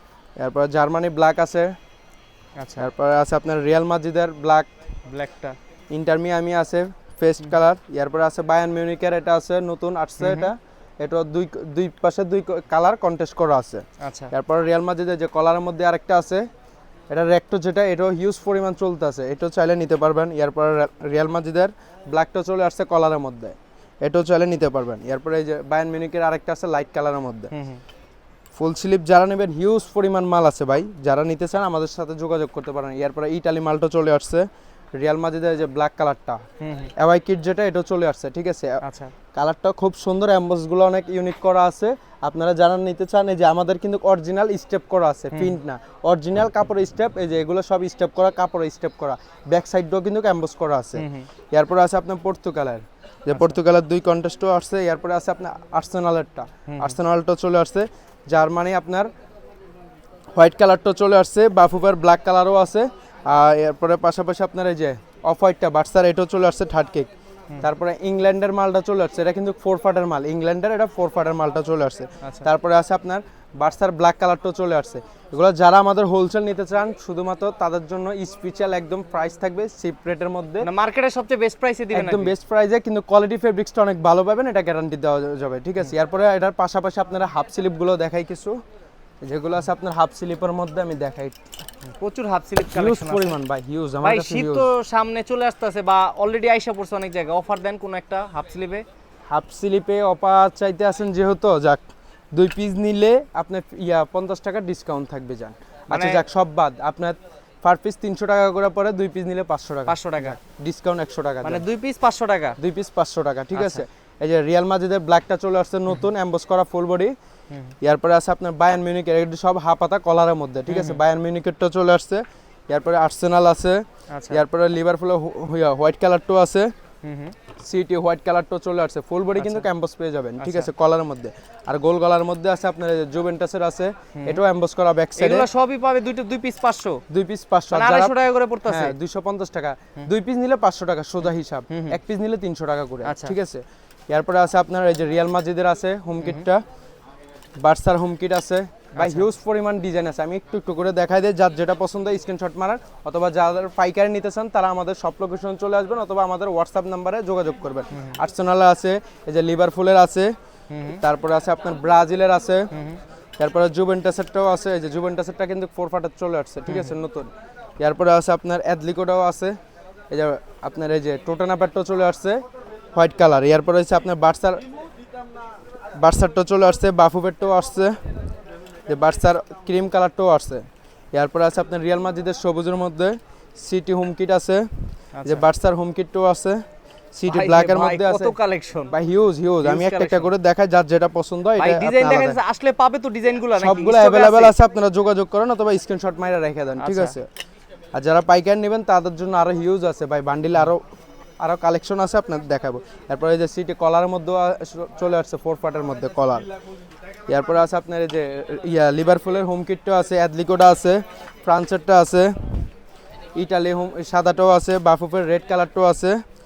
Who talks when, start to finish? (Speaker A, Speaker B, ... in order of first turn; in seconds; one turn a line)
Speaker A: 0.4-1.8
Speaker B: 2.6-2.9
Speaker A: 2.8-4.7
Speaker B: 5.1-5.6
Speaker A: 5.9-16.5
Speaker B: 10.2-10.5
Speaker B: 14.0-14.3
Speaker A: 17.1-27.5
Speaker B: 27.5-27.8
Speaker A: 28.6-36.5
Speaker B: 36.6-36.9
Speaker A: 37.0-38.8
Speaker B: 38.8-39.1
Speaker A: 39.3-59.1
Speaker B: 45.3-45.6
Speaker B: 51.0-51.3
Speaker B: 56.7-57.0
Speaker A: 60.4-67.1
Speaker A: 67.6-80.7
Speaker B: 72.2-72.5
Speaker B: 80.6-82.3
Speaker A: 81.9-88.6
Speaker A: 89.2-91.4
Speaker B: 92.0-93.4
Speaker A: 92.7-94.7
Speaker B: 94.0-98.8
Speaker A: 99.3-111.6
Speaker B: 105.9-106.2
Speaker B: 109.9-110.4
Speaker B: 111.4-112.6
Speaker A: 112.6-117.2
Speaker B: 113.5-113.8
Speaker B: 117.5-117.8
Speaker A: 117.8-126.7
Speaker B: 120.7-121.0
Speaker B: 124.1-124.4
Speaker B: 127.0-127.4
Speaker A: 127.6-135.5
Speaker B: 129.4-129.7
Speaker B: 130.4-130.7
Speaker B: 134.2-134.4
Speaker B: 135.2-137.0
Speaker A: 137.1-146.6
Speaker B: 137.7-139.0
Speaker B: 141.7-142.0
Speaker B: 143.0-143.4
Speaker B: 146.2-146.5
Speaker A: 147.6-160.4
Speaker B: 149.0-149.3
Speaker B: 157.9-158.2
Speaker B: 160.7-161.0
Speaker A: 160.9-162.7
Speaker B: 162.7-163.0
Speaker A: 163.4-169.6
Speaker B: 166.7-167.0
Speaker A: 170.1-172.4
Speaker A: 172.9-174.6
Speaker A: 176.0-178.2
Speaker A: 178.9-188.3
Speaker B: 185.2-185.4
Speaker B: 187.3-188.9
Speaker A: 188.9-192.4
Speaker B: 189.6-190.3
Speaker B: 191.6-194.6
Speaker A: 193.6-197.3
Speaker B: 196.8-197.2
Speaker A: 197.9-200.8
Speaker A: 201.4-206.5
Speaker A: 207.3-212.7
Speaker A: 213.4-216.2